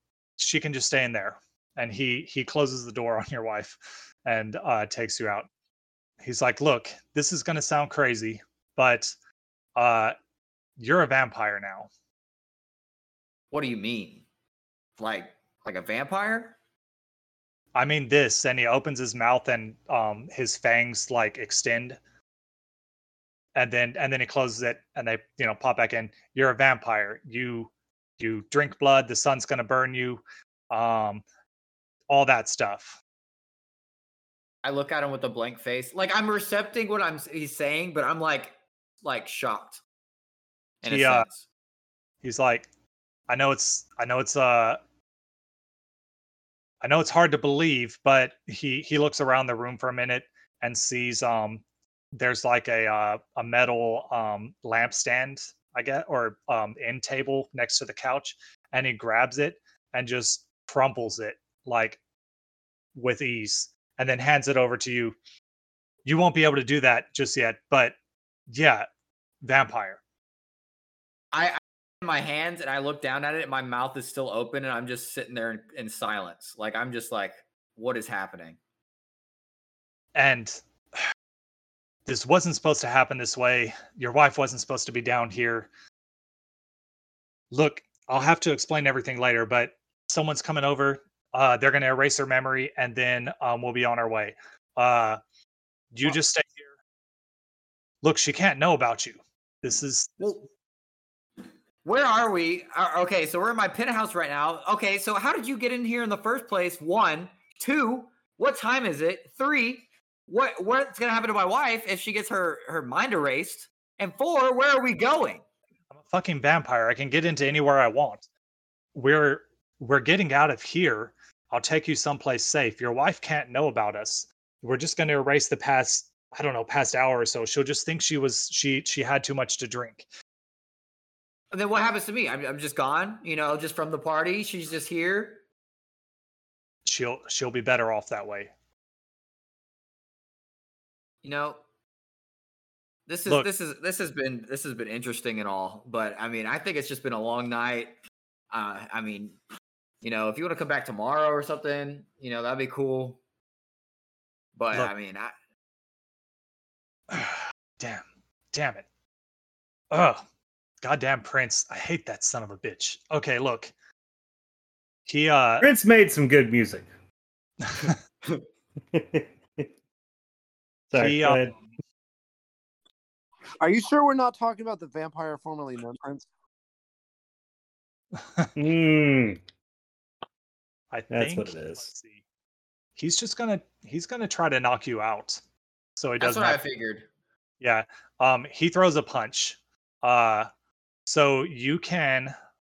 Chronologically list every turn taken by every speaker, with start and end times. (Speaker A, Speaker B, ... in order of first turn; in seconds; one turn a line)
Speaker A: 0.4-5.5
Speaker A: 6.2-9.1
Speaker A: 9.8-10.1
Speaker A: 10.8-11.9
Speaker B: 13.5-14.2
Speaker B: 15.0-16.6
Speaker A: 17.7-22.0
Speaker A: 23.6-31.2
Speaker A: 32.1-33.0
Speaker B: 34.6-39.8
Speaker B: 40.8-41.4
Speaker A: 40.8-41.3
Speaker A: 42.2-42.7
Speaker A: 43.3-44.8
Speaker A: 46.8-51.6
Speaker A: 52.1-62.0
Speaker A: 62.9-65.2
Speaker A: 66.0-67.9
Speaker A: 68.5-68.9
Speaker A: 69.4-70.0
Speaker B: 71.3-78.6
Speaker A: 80.1-80.6
Speaker A: 82.0-85.7
Speaker A: 87.5-95.2
Speaker A: 95.9-96.7
Speaker A: 98.0-100.5
Speaker B: 101.8-115.4
Speaker A: 115.9-118.2
Speaker A: 118.9-130.1
Speaker B: 131.5-135.4
Speaker A: 136.8-138.5
Speaker B: 141.2-141.6
Speaker B: 143.1-148.0
Speaker B: 148.5-149.4
Speaker B: 150.0-153.2
Speaker B: 154.6-155.3
Speaker A: 157.1-158.8
Speaker A: 159.9-160.2
Speaker A: 160.8-163.7
Speaker A: 165.1-165.7
Speaker C: 165.6-166.9
Speaker A: 167.6-167.9
Speaker C: 168.9-169.7
Speaker C: 170.9-171.5
Speaker A: 170.9-171.7
Speaker D: 173.6-176.3
Speaker C: 178.6-179.4
Speaker A: 180.9-182.2
Speaker C: 181.1-181.9
Speaker A: 183.0-185.4
Speaker A: 186.0-186.6
Speaker B: 186.2-187.1
Speaker A: 187.6-190.5
Speaker A: 191.1-192.3